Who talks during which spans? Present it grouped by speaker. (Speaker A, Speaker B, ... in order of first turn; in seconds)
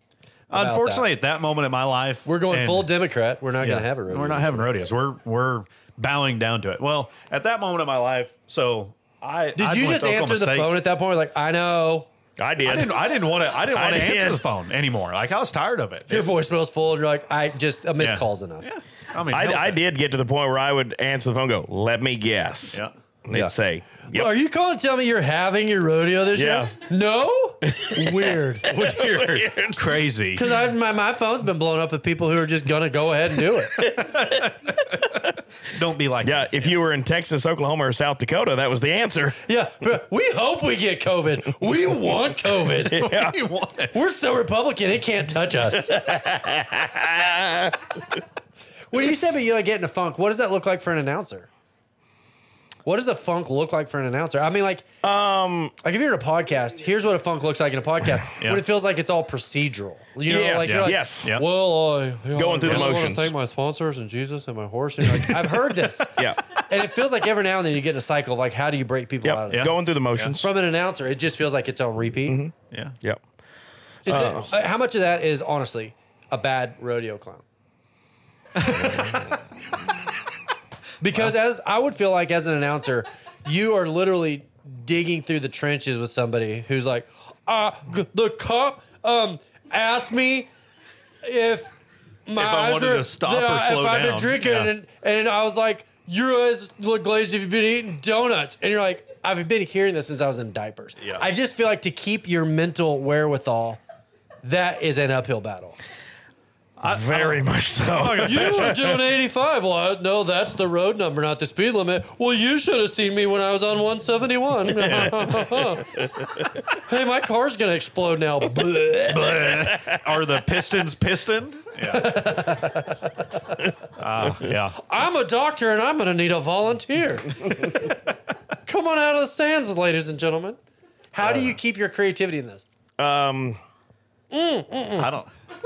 Speaker A: 0.5-2.9, 3.6-10.8, 12.6-16.3, 18.0-19.8, 28.7-30.5, 33.9-35.0, 35.7-36.8, 42.9-44.0, 60.6-61.4, 62.6-63.0, 65.0-66.3, 69.5-70.4, 72.7-73.0, 78.5-79.3, 92.3-94.7, 106.8-109.0, 114.7-115.8, 119.1-122.7, 123.9-124.8, 131.2-131.6, 135.0-135.3
Speaker B: 0.5-1.1, 2.2-4.7, 9.6-12.1, 16.1-18.7, 24.1-29.0, 30.3-33.8, 39.4-43.1, 43.9-45.9, 48.9-51.5, 52.9-54.8, 55.8-69.7, 70.4-72.4, 74.0-77.4, 81.0-90.5, 91.2-91.7, 92.2-103.8, 104.4-105.8, 108.2-115.9, 116.7-119.7, 121.8-123.0, 124.8-127.9, 128.7-130.6, 131.1-132.6, 134.3-135.1
Speaker C: 12.4-13.0, 13.7-14.4, 19.3-24.3, 26.3-26.8, 27.6-29.8, 33.8-34.5, 36.2-39.4, 42.9-43.4, 45.9-47.8, 55.0-55.7, 60.3-61.4, 62.4-63.3, 66.2-66.4, 69.2-70.5, 72.3-73.2, 74.0-74.5, 106.8-108.7, 133.0-133.6